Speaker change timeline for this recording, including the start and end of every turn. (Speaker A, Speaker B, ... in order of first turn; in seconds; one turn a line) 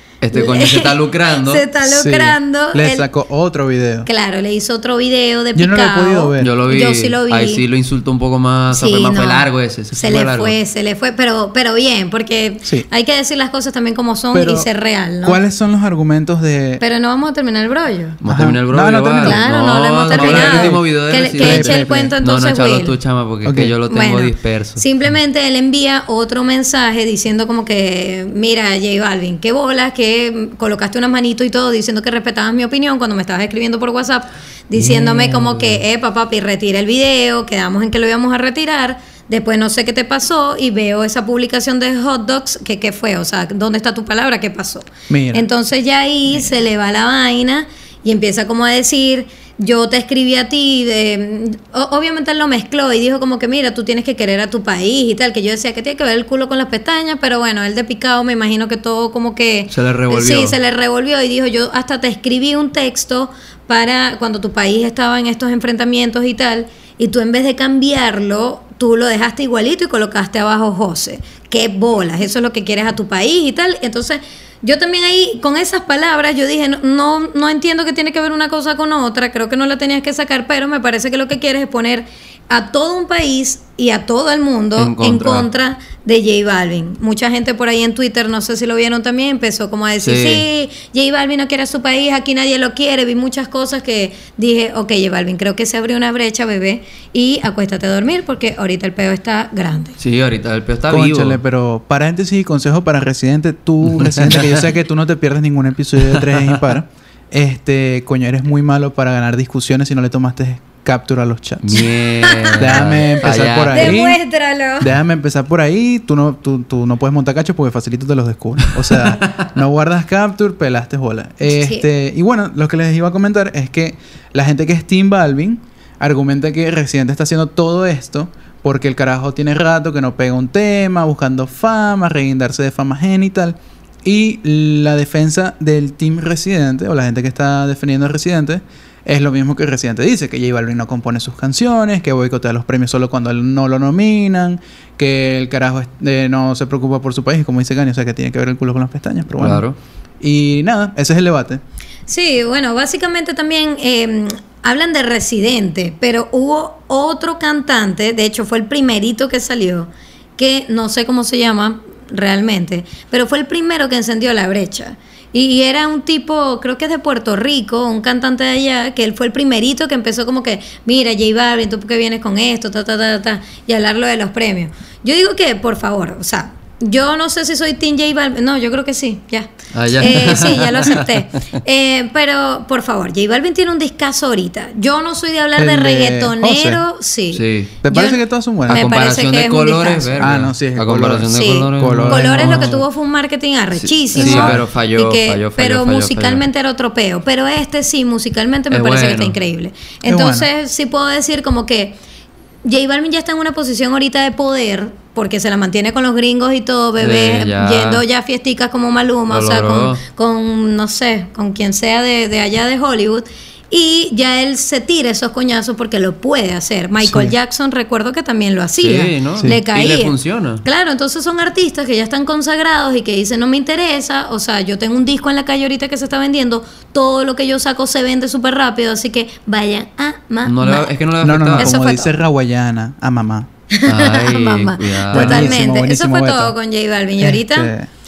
Speaker A: 0.2-1.6
Speaker B: 0.3-3.1
Speaker C: 1.8-4.1
Speaker B: 4.1-7.6
Speaker C: 5.5-6.6
Speaker A: 6.4-10.6
Speaker B: 8.7-15.4
Speaker C: 14.3-14.7
Speaker C: 15.2-16.8
Speaker B: 16.8-18.2
Speaker A: 18.2-24.9
Speaker C: 18.2-19.5
Speaker B: 19.2-22.9
Speaker C: 20.1-20.8
Speaker C: 21.4-22.1
Speaker C: 23.4-23.8
Speaker B: 23.9-100.0
Speaker A: 34.8-35.8
Speaker C: 45.1-45.5
Speaker A: 59.7-60.6
Speaker A: 84.8-85.5
Speaker A: 90.0-90.5
Speaker A: 100.0-101.4
Speaker C: 100.9-111.8
Speaker A: 103.8-104.6
Speaker A: 106.0-106.6
Speaker A: 111.6-114.0
Speaker B: 112.2-114.9
Speaker C: 112.5-114.2
Speaker C: 114.8-149.6
Speaker A: 118.9-119.4
Speaker B: 121.5-121.8
Speaker A: 149.4-149.8
Speaker C: 150.2-151.6
Speaker B: 152.1-190.2
Speaker A: 179.7-181.1
Speaker C: 185.6-186.8
Speaker A: 187.3-187.7
Speaker C: 187.8-188.9
Speaker A: 188.7-192.8
Speaker C: 190.2-192.7
Speaker B: 191.3-201.9
Speaker A: 193.8-196.4
Speaker C: 194.1-194.6
Speaker A: 198.7-199.4
Speaker C: 200.1-200.5
Speaker B: 202.6-230.9
Speaker A: 207.0-208.0
Speaker A: 209.3-210.0
Speaker C: 217.0-217.3
Speaker A: 218.8-220.6
Speaker A: 230.4-231.8
Speaker C: 231.2-233.5
Speaker B: 231.6-232.1
Speaker B: 233.7-237.7
Speaker A: 233.8-235.6
Speaker C: 235.1-236.5
Speaker C: 237.2-237.9